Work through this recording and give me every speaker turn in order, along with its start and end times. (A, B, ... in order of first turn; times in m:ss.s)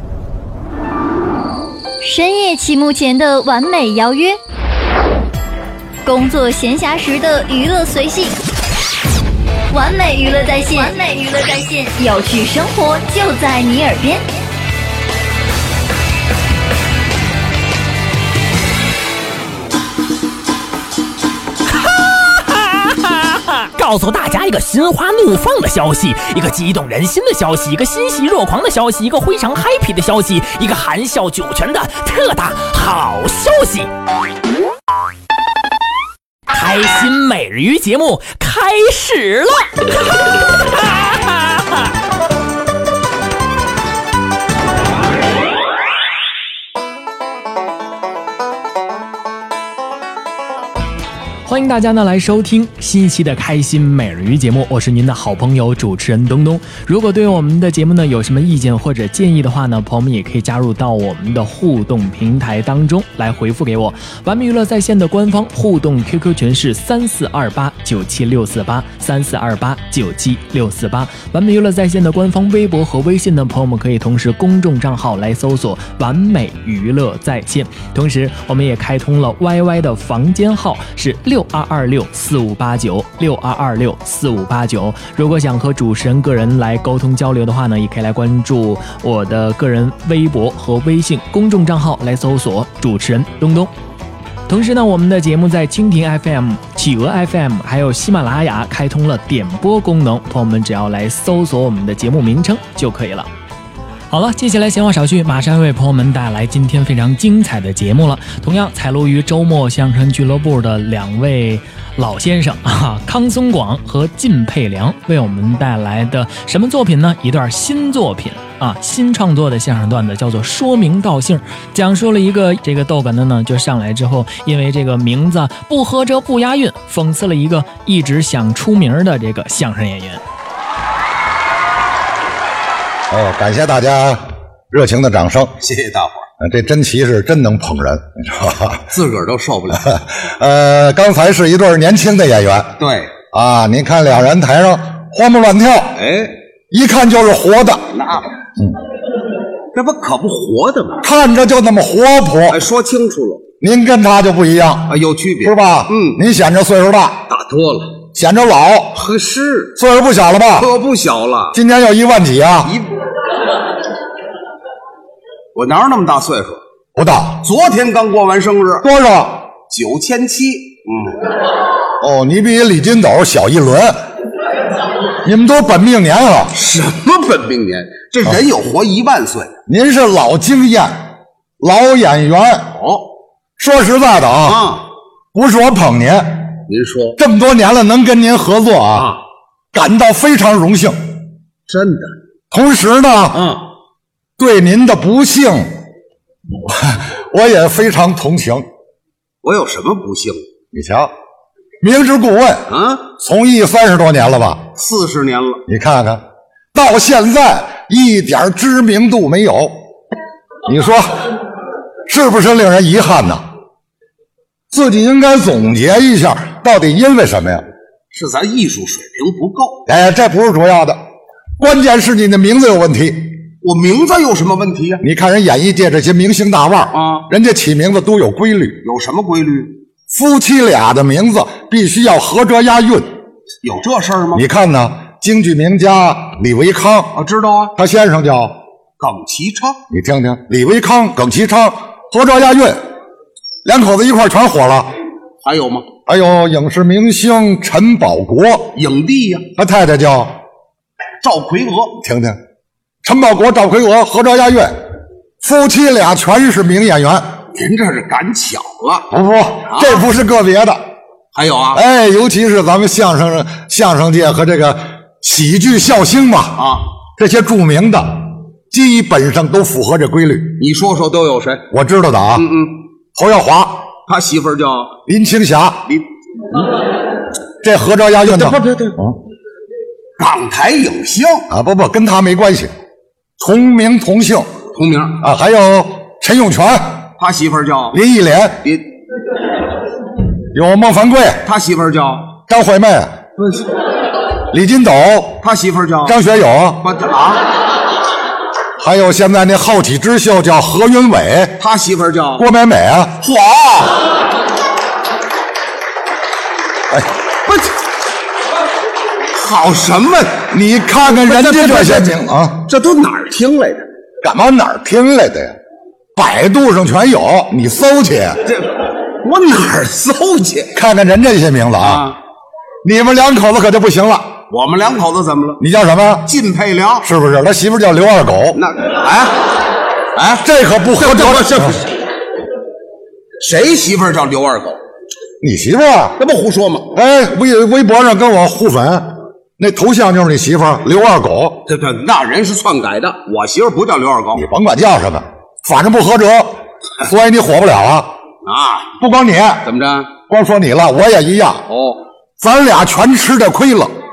0:02.0-0:04.4 A
0:06.0-0:08.4 A
0:09.7-0:14.2 A
0:21.7-0:33.9 B
0:36.5-0:41.8 B
0:51.4-1:33.7 C
1:34.5-1:43.3 C
1:44.1-2:10.2 C
2:13.1-2:15.5 D
2:15.6-2:16.3 E
2:16.4-2:18.9 D
2:18.9-2:20.0 E
2:19.9-2:22.8 D
2:22.8-2:23.2 E
2:23.3-2:26.0 D
2:26.0-2:26.4 E
2:26.7-2:28.0 D
2:27.9-2:28.4 E
2:29.7-2:31.1 E
2:31.0-2:32.6 D
2:32.5-2:33.5 E
2:33.6-2:37.2 D
2:34.9-2:36.2 E
2:37.3-2:38.0 E
2:38.1-2:39.0 D
2:38.9-2:39.8 E
2:39.8-2:40.7 D
2:40.5-2:41.6 E
2:41.5-2:42.7 D
2:45.5-2:46.6 E
2:46.9-2:47.5 D
2:47.4-2:48.8 E
2:48.8-2:49.5 D
2:49.7-2:51.2 E
2:52.0-2:54.0 D
2:55.2-2:56.5 D
2:56.5-2:59.6 E
2:59.7-3:02.7 D
3:02.7-3:03.1 E
3:03.6-3:04.7 D
3:04.4-3:04.8 E
3:05.3-3:06.6 D
3:06.7-3:07.2 E
3:07.2-3:09.1 D
3:08.9-3:09.2 E
3:09.7-3:11.1 D
3:11.7-3:12.1 E
3:12.5-3:13.5 D
3:13.3-3:13.7 E
3:14.4-3:15.7 D
3:16.6-3:18.7 D
3:19.4-3:20.4 E
3:20.7-3:21.1 D
3:21.8-3:24.6 D
3:22.7-3:23.1 E
3:24.8-3:25.6 E
3:25.7-3:29.8 D
3:30.6-3:31.3 D
3:32.1-3:33.5 D
3:34.7-3:37.6 D
3:38.1-3:39.8 E
3:39.9-3:41.0 D
3:41.6-3:43.3 D
3:43.6-3:45.0 E
3:45.0-3:48.8 D
3:46.9-3:47.3 E
3:48.8-3:49.8 E
3:50.1-3:53.1 D
3:53.6-3:54.4 E
3:54.3-3:57.2 D
3:57.2-3:57.7 E
3:57.8-3:58.6 D
3:59.0-3:59.8 E
3:59.9-4:02.8 D
4:03.6-4:04.9 D
4:05.4-4:05.9 E
4:06.1-4:08.7 D
4:08.7-4:09.5 E
4:09.6-4:10.4 D
4:11.2-4:12.0 E
4:12.0-4:12.4 D
4:13.0-4:14.8 D
4:15.4-4:17.4 D
4:17.5-4:19.1 E
4:19.1-4:20.8 D
4:19.7-4:20.0 E
4:21.3-4:21.8 E
4:21.7-4:30.6 D
4:26.6-4:26.9 E
4:30.6-4:31.7 E
4:31.7-4:32.5 D
4:32.3-4:32.8 E
4:33.1-4:33.9 D
4:34.1-4:34.9 E
4:35.1-4:35.9 D
4:37.6-4:39.2 D
4:38.2-4:39.0 E
4:40.2-4:41.5 E
4:41.5-4:42.7 D
4:43.4-4:44.5 D
4:44.7-4:45.2 E
4:45.2-4:47.1 D
4:47.2-4:48.0 E
4:47.9-4:48.7 D
4:50.5-4:51.4 D
4:51.4-4:52.4 E
4:52.5-4:53.2 D
4:53.4-4:53.7 E
4:54.5-4:55.4 D
4:55.4-4:56.2 E
4:56.0-4:56.8 D
4:56.8-4:57.5 E
4:58.8-5:01.6 D
5:01.6-5:02.5 E
5:02.4-5:03.2 D
5:03.2-5:04.1 E
5:09.3-5:10.5 E
5:10.5-5:12.7 D
5:11.0-5:13.8 E
5:14.2-5:15.6 D
5:16.2-5:18.4 D
5:18.4-5:20.7 E
5:20.7-5:22.0 D
5:21.8-5:22.2 E
5:22.8-5:24.4 D
5:24.5-5:25.6 E
5:25.6-5:26.3 D
5:26.2-5:27.1 E
5:27.0-5:28.6 D
5:28.5-5:29.6 E
5:30.2-5:32.0 E
5:30.4-5:31.8 D
5:33.4-5:34.8 E
5:35.4-5:36.2 D
5:36.2-5:36.9 E
5:36.9-5:41.6 D
5:41.7-5:44.4 E
5:44.3-5:48.1 D
5:48.4-5:49.0 E
5:49.0-5:49.7 D
5:49.6-5:50.1 E
5:50.3-5:51.6 D
5:51.7-5:52.0 E
5:52.4-5:53.9 D